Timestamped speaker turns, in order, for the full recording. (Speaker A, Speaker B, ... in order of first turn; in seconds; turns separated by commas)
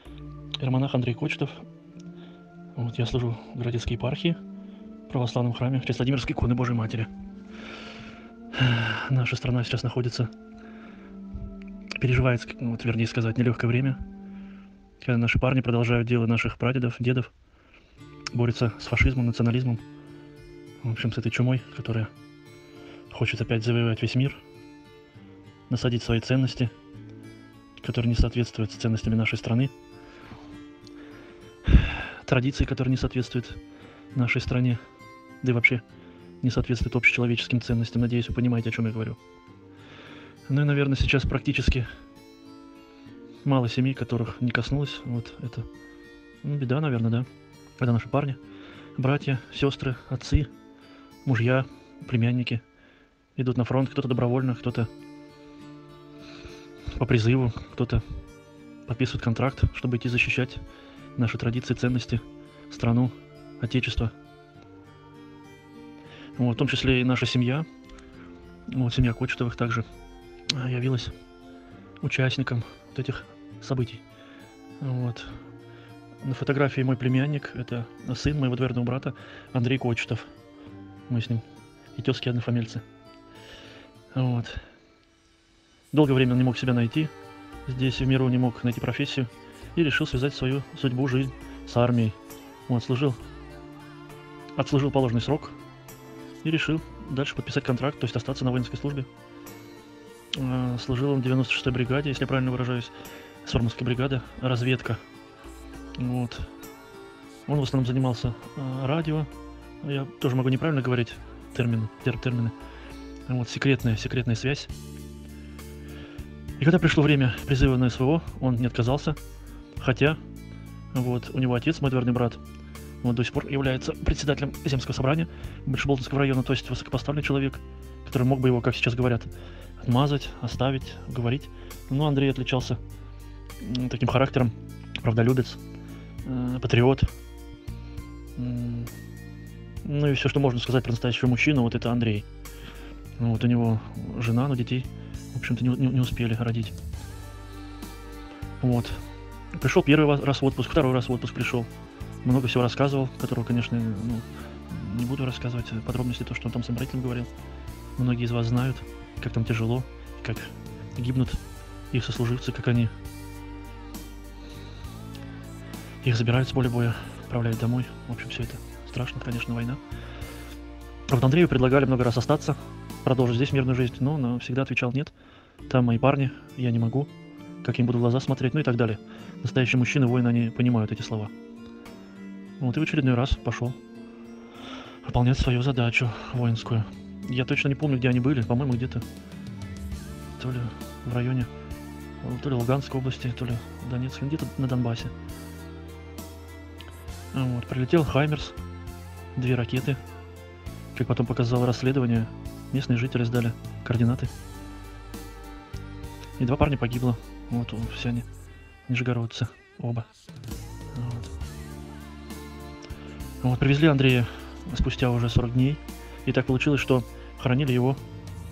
Speaker A: 0.6-1.6, Speaker A: 2.7-4.4, Speaker A: 5.1-7.1, Speaker A: 8.5-10.3, Speaker A: 12.0-14.0, Speaker A: 15.0-17.3, Speaker A: 18.3-19.8, Speaker A: 20.8-22.1, Speaker A: 23.1-24.4, Speaker A: 25.7-26.7, Speaker A: 27.8-29.7, Speaker A: 31.6-33.6, Speaker A: 34.1-34.8, Speaker A: 35.4-35.8, Speaker A: 36.4-39.2, Speaker A: 40.5-41.9, Speaker A: 43.4-45.7, Speaker A: 46.4-47.3, Speaker A: 47.8-48.4, Speaker A: 49.0-50.5, Speaker A: 51.2-52.6, Speaker A: 53.4-54.9, Speaker A: 56.9-58.0, Speaker A: 58.9-60.6, Speaker A: 61.1-64.1, Speaker A: 66.4-67.7, Speaker A: 68.7-69.9, Speaker A: 70.5-71.2, Speaker A: 72.0-74.0, Speaker A: 74.8-75.4, Speaker A: 76.2-80.3, Speaker A: 81.1-82.8, Speaker A: 84.1-84.6, Speaker A: 85.9-87.1, Speaker A: 87.7-93.2, Speaker A: 94.5-95.6, Speaker A: 96.4-99.1, Speaker A: 100.3-105.0, Speaker A: 106.0-106.5, Speaker A: 107.5-109.3, Speaker A: 109.8-112.5, Speaker A: 113.3-114.7, Speaker A: 116.6-119.2, Speaker A: 119.8-120.2, Speaker A: 120.9-122.4, Speaker A: 123.0-132.8, Speaker A: 133.6-135.6, Speaker A: 136.2-137.1, Speaker A: 138.4-138.9, Speaker A: 139.8-142.3, Speaker A: 143.2-146.7, Speaker A: 148.6-149.0, Speaker A: 149.5-151.7, Speaker A: 152.2-157.3, Speaker A: 158.0-161.4, Speaker A: 161.9-162.9, Speaker A: 166.0-169.8, Speaker A: 171.1-175.1, Speaker A: 175.7-177.1, Speaker A: 177.6-181.3, Speaker A: 182.6-183.8, Speaker A: 185.0-189.0, Speaker A: 190.4-191.5, Speaker A: 192.2-195.1, Speaker A: 197.3-198.6, Speaker A: 199.3-200.0, Speaker A: 200.9-204.3, Speaker A: 206.4-208.3, Speaker A: 208.8-210.1, Speaker A: 210.9-211.3, Speaker A: 213.4-218.0